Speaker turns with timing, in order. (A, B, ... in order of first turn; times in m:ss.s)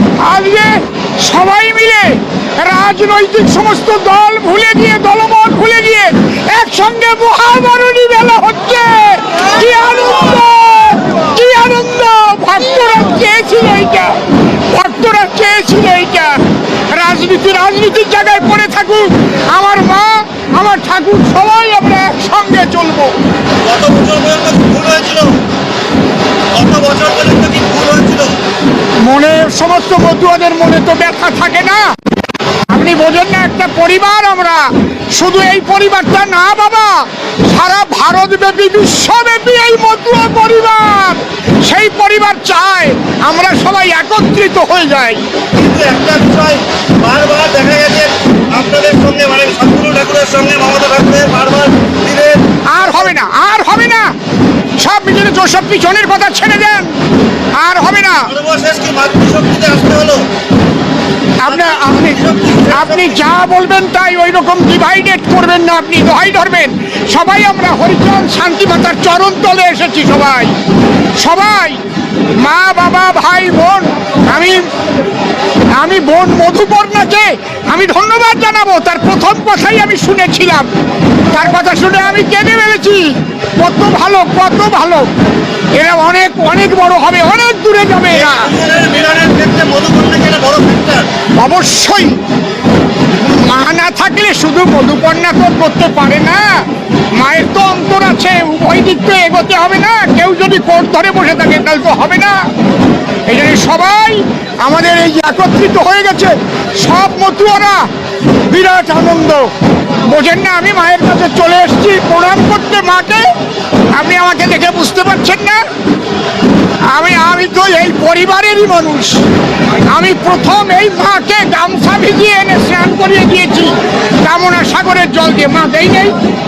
0:00.2-0:23.1 A
0:23.6-0:25.4 B
0:26.5-0:28.4 B
0:29.0-0:31.9 A
0:32.7-0:45.3 A
0:45.5-0:53.1 B
0:52.7-0:54.2 A
0:54.8-0:57.0 A
0:57.5-0:58.3 A
0:58.3-1:00.3 B
1:01.4-1:10.6 A
1:01.4-1:03.2 B
1:11.2-1:11.8 A
1:12.4-1:14.7 A
1:15.8-1:20.7 A
1:21.3-1:25.1 A
1:25.7-1:28.5 A
1:28.1-1:31.1 B
1:31.4-1:32.2 A
1:33.2-1:42.5 A
1:43.3-1:47.9 A
1:48.5-1:49.5 A
1:50.1-1:53.3 A
1:53.9-1:55.6 A
1:56.9-1:59.2 A
1:59.9-2:06.2 A